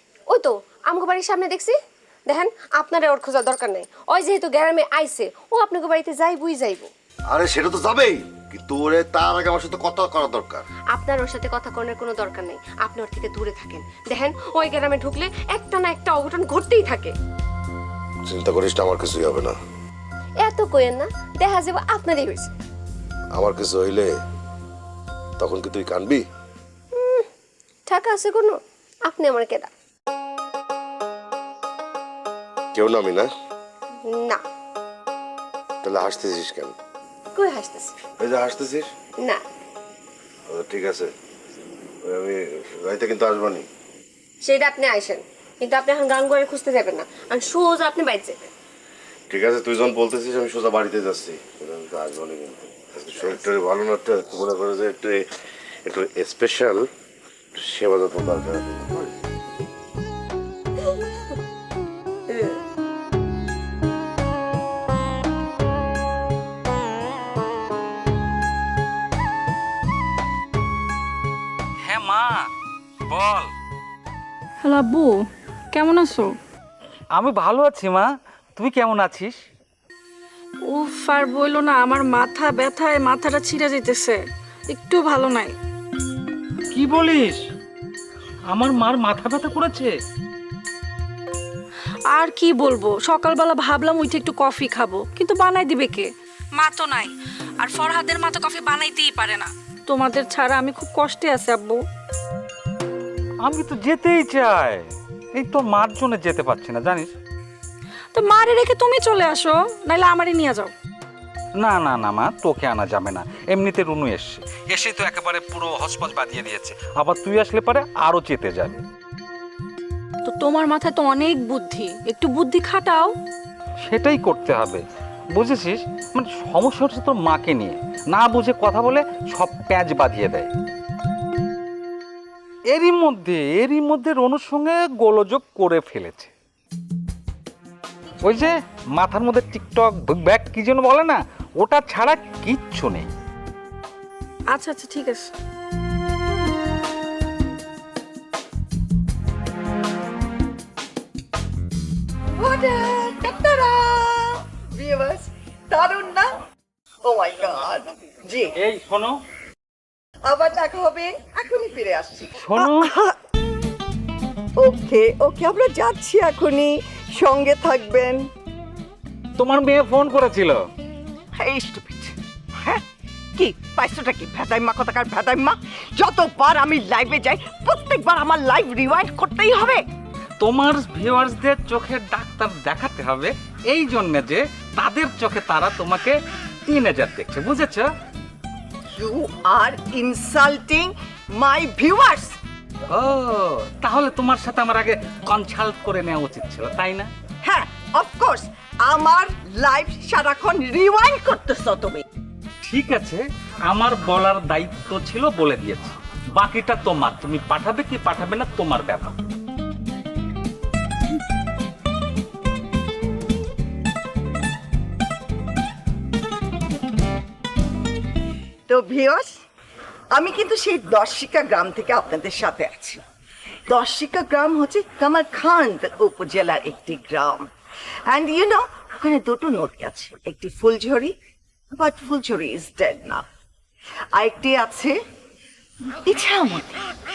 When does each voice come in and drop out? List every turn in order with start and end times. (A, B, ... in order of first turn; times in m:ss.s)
0:00.3-0:01.7 A
0:02.3-0:06.9 A
0:07.3-0:10.6 B
0:10.9-0:17.1 A
0:18.3-0:19.5 B
0:20.4-0:22.5 A
0:23.4-0:24.1 B
0:25.4-0:26.2 B
0:27.0-0:27.2 A
0:27.9-0:29.7 A
0:32.7-0:33.3 B
0:34.1-0:34.4 A
0:35.8-0:36.7 B
0:37.3-0:37.9 A
0:38.2-0:38.9 B
0:40.5-0:41.1 B
0:42.1-0:43.6 B
0:44.4-0:48.5 A
0:49.3-0:55.2 B
0:55.8-0:56.8 B
0:57.6-0:59.1 B
1:11.8-1:12.5 C
1:13.1-1:13.5 C
1:14.6-1:15.2 D
1:15.7-1:16.3 D
1:17.1-1:19.4 C
1:20.7-1:25.5 D
1:26.7-1:27.4 C
1:28.5-1:29.9 C
1:32.1-1:41.8 D
1:43.4-1:47.1 C
1:48.1-1:50.7 D
1:51.6-1:58.8 C
2:00.2-2:03.1 D
2:03.8-2:04.8 C
2:05.3-2:10.5 C
2:12.7-2:16.3 C
2:18.2-2:23.1 C
2:24.5-2:25.3 D
2:32.4-2:36.4 E
2:37.0-2:38.6 E
2:38.6-2:39.2 C
2:40.2-2:43.1 E
2:42.4-2:42.9 C
2:44.6-2:48.2 E
2:49.4-2:50.6 C
2:51.4-2:52.8 E
2:53.4-2:59.8 E
3:00.4-3:07.9 C
3:09.0-3:12.3 E
3:12.9-3:17.1 C
3:17.4-3:22.0 E
3:22.6-3:29.2 C
3:38.7-3:39.3 E
3:40.1-3:43.0 E
3:43.7-3:47.5 E
3:48.1-3:51.1 E
3:51.7-3:53.2 E
3:54.2-3:54.9 E
3:56.0-3:56.9 E